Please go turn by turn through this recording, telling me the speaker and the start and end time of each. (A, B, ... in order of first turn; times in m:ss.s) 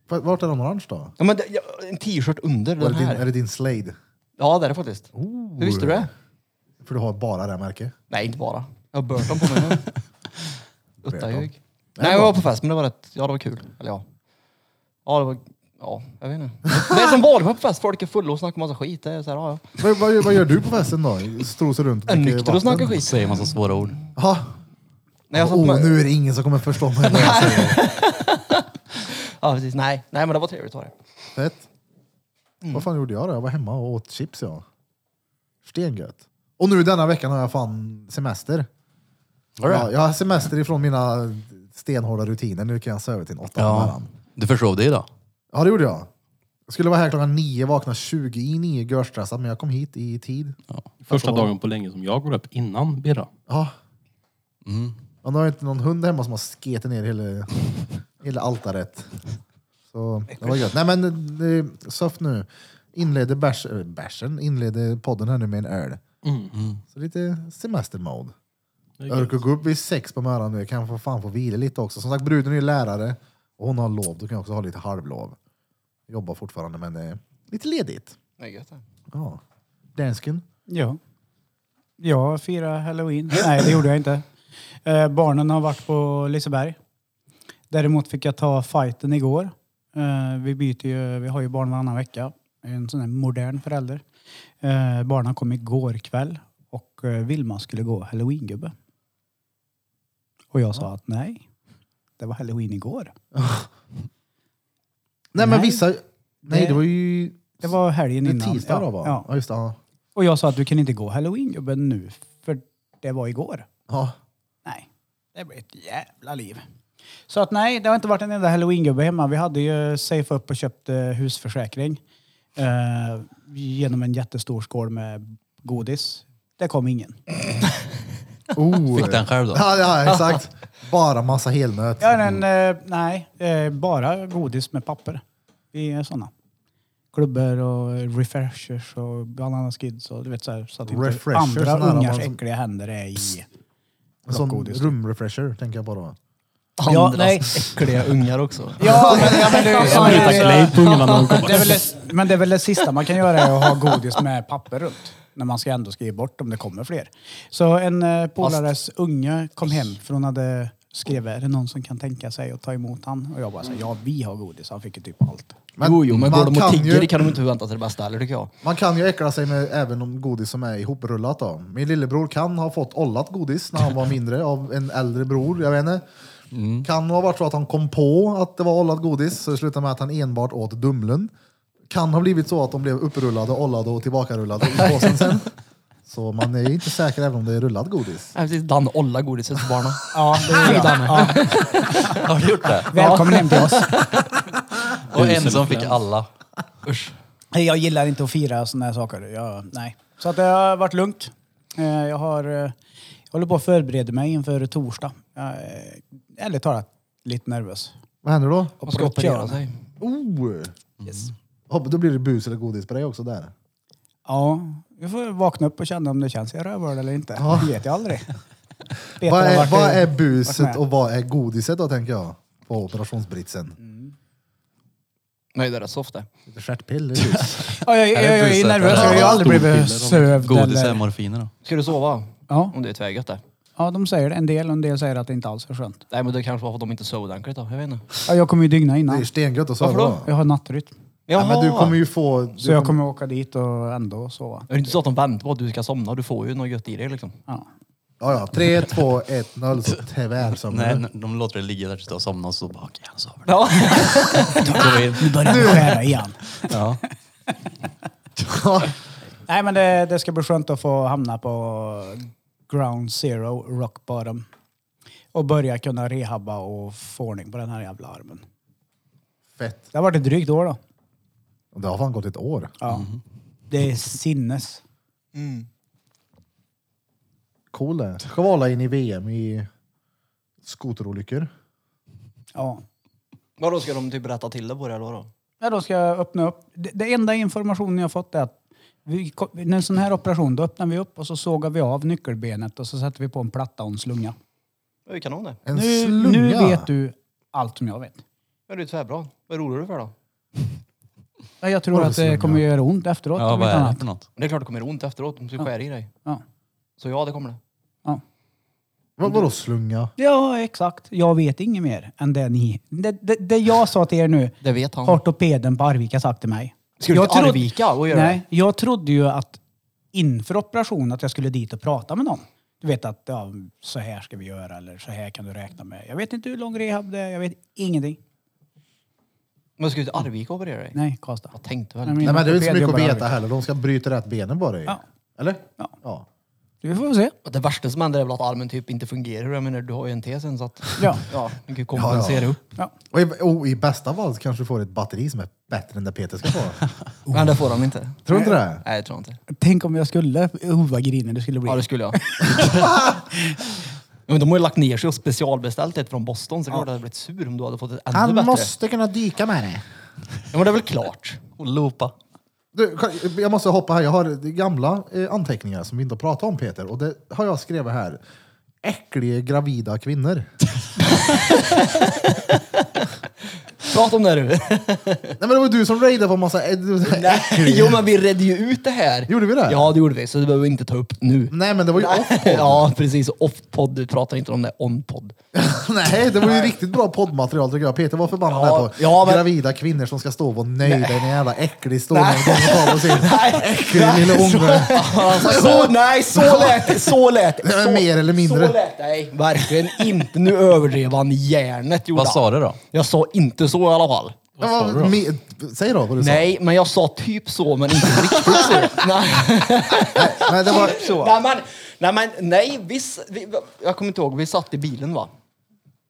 0:00.1-0:01.1 A
0:01.2-0:03.3 B
0:02.8-0:04.0 A
0:04.4-0:06.1 B
0:05.2-0:06.1 A
0:06.8-0:07.9 A
0:08.1-0:09.9 B
0:11.0-0:14.0 B
0:11.1-0:12.4 A
0:15.1-0:19.7 B
0:16.7-0:17.0 A
0:19.8-0:23.0 A
0:22.1-0:24.0 B
0:23.0-0:24.0 C
0:24.2-0:24.5 A
0:25.3-0:26.1 B
0:25.3-0:27.8 A
0:27.0-0:30.9 B
0:31.4-0:31.6 A
0:32.7-0:34.6 A
0:35.6-0:38.7 A
0:39.6-0:39.9 C
0:39.7-0:44.1 A
0:43.6-0:45.1 C
0:45.5-0:46.1 A
0:46.7-0:50.6 A
0:51.0-0:53.3 D
0:51.1-0:51.5 A
0:54.6-0:55.0 C
0:55.2-0:57.5 A
0:58.2-0:59.1 A
0:59.9-1:06.0 A
1:06.2-1:06.6 D
1:06.5-1:06.8 C
1:06.9-1:08.3 A
1:09.0-1:09.4 D
1:09.1-1:15.4 A
1:16.1-1:18.2 A
1:18.4-1:18.8 B
1:19.1-1:19.4 A
1:20.0-1:20.4 A
1:20.7-1:21.0 E
1:22.0-1:24.2 E
1:24.8-1:26.8 E
1:27.7-1:34.0 E
1:34.6-1:38.7 E
1:40.5-1:41.4 E
1:42.2-1:43.1 E
1:43.3-1:43.7 A
1:45.3-1:47.6 A
1:45.4-1:45.9 E
1:46.5-1:46.8 E
1:47.6-1:49.2 E
1:48.2-1:49.8 A
1:50.2-1:53.7 E
1:53.9-1:54.2 A
1:54.6-1:56.6 E
1:57.3-2:02.0 E
2:02.6-2:07.2 E
2:08.5-2:12.2 A
2:08.9-2:09.7 C
2:12.0-2:15.2 E
2:15.7-2:16.3 E
2:17.1-2:23.5 E
2:20.9-2:22.4 A
2:24.3-2:26.2 A
2:24.3-2:24.9 E
2:26.8-2:31.6 B
2:26.9-2:27.7 E
2:28.8-2:45.6 E
2:28.9-2:29.6 A
2:29.7-2:31.8 D
2:33.4-2:33.7 B
2:38.4-2:38.7 B
2:45.8-2:47.1 A
2:45.8-2:48.5 B
2:48.6-2:56.0 A
2:56.5-2:56.9 C
2:56.8-3:01.3 A
3:01.9-3:05.5 A
3:06.1-3:08.4 A
3:08.4-3:12.3 B
3:10.1-3:11.5 E
3:10.8-3:11.2 C
3:12.0-3:13.0 C
3:12.8-3:14.2 B
3:12.9-3:14.0 E
3:15.1-3:16.3 C
3:15.1-3:16.0 D
3:16.8-3:17.1 B
3:17.5-3:22.7 E
3:23.3-3:27.9 E
3:28.2-3:28.8 A
3:28.8-3:29.6 E
3:28.8-3:29.8 B
3:30.0-3:30.7 A
3:31.0-3:31.3 C
3:31.7-3:33.5 A
3:34.3-3:38.3 E
3:37.4-3:37.7 A
3:39.2-3:40.8 E
3:39.2-3:43.8 A
3:43.8-3:44.1 E
3:45.6-3:46.3 B
3:46.5-3:47.7 A
3:47.2-3:49.7 C
3:47.6-3:51.0 E
3:48.8-3:50.4 D
3:49.0-3:49.2 A
3:50.4-3:51.5 C
3:51.6-3:53.4 B
3:53.8-3:56.0 E
3:56.1-3:58.1 B
3:58.3-3:59.3 E
3:59.1-4:00.3 A
3:59.8-4:00.2 B
4:00.2-4:00.9 E
4:01.3-4:02.0 B
4:01.4-4:03.0 A
4:02.6-4:04.7 E
4:04.7-4:07.4 B
4:08.2-4:11.0 A
4:10.5-4:15.8 C
4:13.5-4:14.8 B
4:14.6-4:16.8 E
4:15.4-4:16.0 A
4:16.7-4:17.0 C
4:18.4-4:18.9 A
4:19.5-4:24.5 E
4:25.3-4:28.4 E
4:29.6-4:29.9 A
4:29.9-4:30.8 E
4:31.7-4:32.8 A
4:32.8-4:33.1 E
4:32.9-4:33.2 C
4:33.7-4:34.8 E
4:35.3-4:35.7 B
4:37.7-4:39.7 A
4:40.6-4:41.5 A
4:42.6-4:42.8 E
4:43.6-4:45.3 B
4:45.6-4:54.4 E
4:55.1-4:55.6 B
4:55.7-4:56.9 A
4:55.7-4:58.2 E
4:58.7-5:00.1 B
5:01.6-5:04.0 E
5:01.9-5:02.6 A
5:03.4-5:04.3 C
5:04.4-5:06.1 B
5:07.0-5:07.6 B
5:09.2-5:10.1 A
5:10.2-5:19.6 E
5:14.6-5:15.2 B
5:17.0-5:18.4 B
5:20.1-5:28.2 E
5:29.8-5:31.0 B
5:31.0-5:33.3 E
5:31.5-5:32.4 B
5:32.2-5:36.3 A
5:36.8-5:37.3 E
5:37.4-5:42.6 B
5:41.0-5:41.2 E
5:42.0-5:42.6 A
5:43.1-5:46.8 A
5:47.3-5:49.4 B
5:48.3-5:48.8 A
5:49.5-5:53.6 E
5:51.7-5:52.2 B
5:52.5-5:53.2 A
5:54.3-5:58.7 B
5:58.1-5:59.8 A
6:00.5-6:01.4 B
6:01.6-6:02.1 C
6:02.7-6:08.2 A
6:08.8-6:10.5 A
6:11.0-6:13.1 B
6:13.8-6:15.4 B
6:15.4-6:18.0 A
6:17.0-6:25.4 B
6:19.3-6:19.9 A
6:21.5-6:22.9 A
6:25.5-6:38.8 A
6:26.4-6:26.7 B
6:28.5-6:29.5 B
6:30.8-6:31.4 B
6:32.1-6:44.4 B
6:42.1-6:42.8 C
6:44.6-6:45.2 D
6:44.6-6:46.5 A
6:46.2-6:55.3 B
6:48.4-6:48.9 A
6:50.1-6:51.3 A